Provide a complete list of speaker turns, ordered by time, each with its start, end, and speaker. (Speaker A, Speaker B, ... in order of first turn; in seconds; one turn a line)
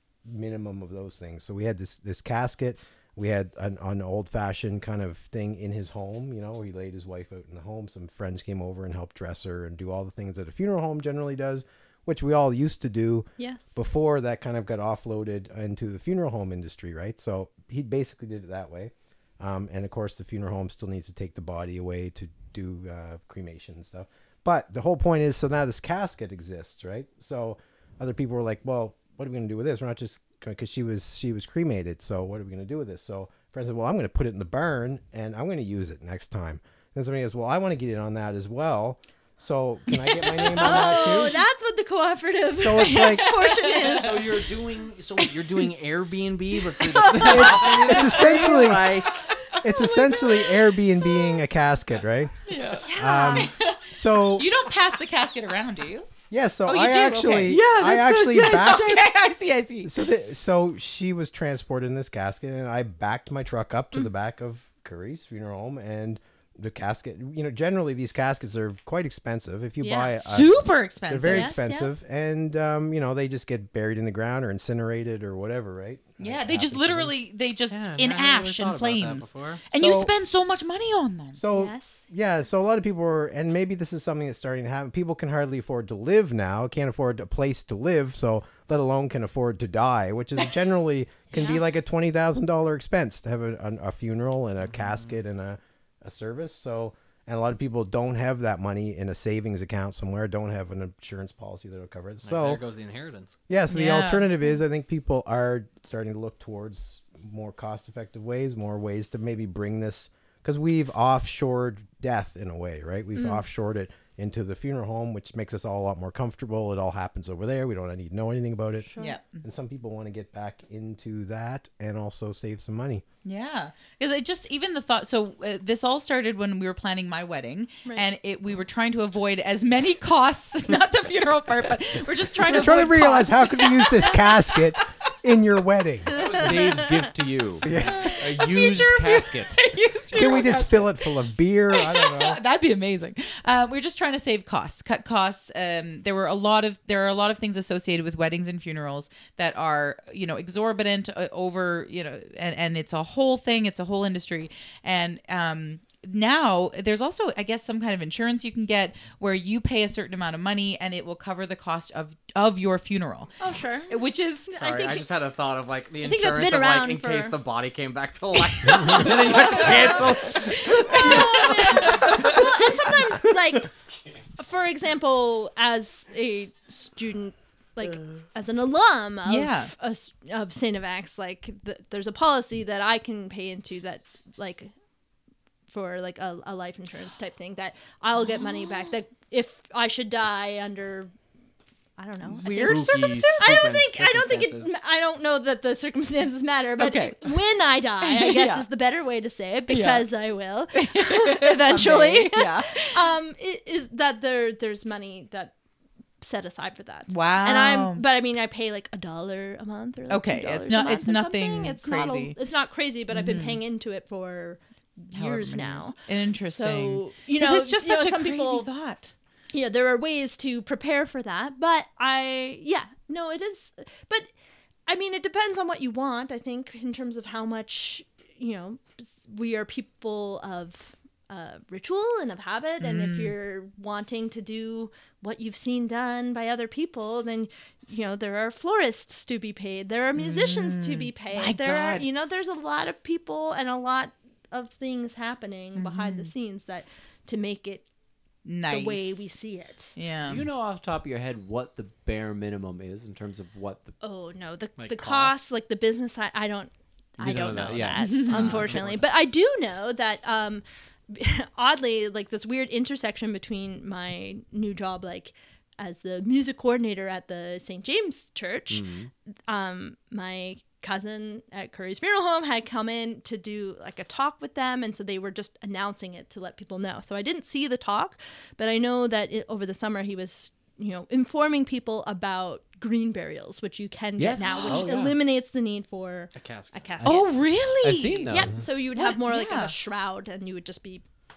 Speaker A: 0.2-41.4
Speaker B: 13.4-13.7
Speaker C: 40.4-41.3
Speaker B: 40.5-44.4
Speaker A: 42.5-43.3
Speaker C: 42.9-44.3
Speaker D: 43.8-49.2
Speaker C: 45.2-45.6
Speaker C: 46.5-50.7
Speaker A: 47.2-49.0
Speaker A: 49.6-52.3
Speaker C: 52.5-56.1
Speaker A: 52.9-54.5
Speaker A: 56.3-59.1
Speaker C: 56.6-59.9
Speaker D: 57.5-57.8
Speaker A: 59.8-77.1
Speaker B: 69.8-70.1
Speaker C: 70.2-71.5
Speaker B: 71.3-71.9
Speaker C: 76.2-81.4
Speaker D: 77.7-79.7
Speaker A: 79.7-80.1
Speaker A: 81.3-102.6
Speaker B: 81.5-82.0
Speaker B: 91.3-91.6
Speaker D: 94.8-95.1
Speaker D: 102.2-103.3
Speaker A: 103.5-118.9
Speaker C: 103.7-104.4
Speaker B: 113.2-113.4
Speaker B: 118.8-119.2
Speaker C: 119.0-119.4
Speaker A: 119.4-123.0
Speaker C: 123.2-134.8
Speaker A: 132.4-136.2
Speaker D: 136.1-136.8
Speaker E: 136.1-139.6
Speaker B: 136.2-136.9
Speaker A: 137.6-138.2
Speaker C: 137.7-141.1
Speaker A: 140.1-142.4
Speaker C: 141.7-163.3
Speaker B: 163.4-165.1
Speaker C: 163.9-164.5
Speaker D: 164.5-172.3
Speaker B: 166.0-167.4
Speaker B: 168.7-173.7
Speaker C: 169.0-172.9
Speaker B: 174.4-184.7
Speaker C: 179.2-179.7
Speaker B: 185.7-191.1
Speaker B: 192.0-205.5
Speaker C: 192.3-193.6
Speaker D: 192.4-194.7
Speaker C: 196.8-197.4
Speaker C: 198.0-198.7
Speaker C: 199.7-200.1
Speaker C: 200.7-203.0
Speaker B: 206.2-218.7
Speaker C: 207.1-208.0
Speaker C: 210.1-212.3
Speaker C: 213.1-213.6
Speaker C: 215.1-219.1
Speaker B: 219.5-224.3
Speaker B: 224.9-247.8
Speaker C: 232.8-233.3
Speaker C: 240.2-242.0
Speaker C: 245.7-246.3
Speaker C: 248.4-249.3
Speaker B: 248.7-249.9
Speaker C: 249.9-250.4
Speaker E: 250.3-253.9
Speaker B: 254.0-268.9
Speaker D: 254.8-255.4
Speaker E: 257.2-259.0
Speaker D: 257.7-259.0
Speaker C: 258.0-258.6
Speaker E: 268.7-269.1
Speaker B: 269.5-287.4
Speaker E: 284.2-285.1
Speaker C: 284.4-284.8
Speaker D: 284.6-284.9
Speaker D: 286.3-287.2
Speaker C: 287.0-288.3
Speaker E: 287.8-288.6
Speaker B: 288.3-291.0
Speaker C: 288.9-289.7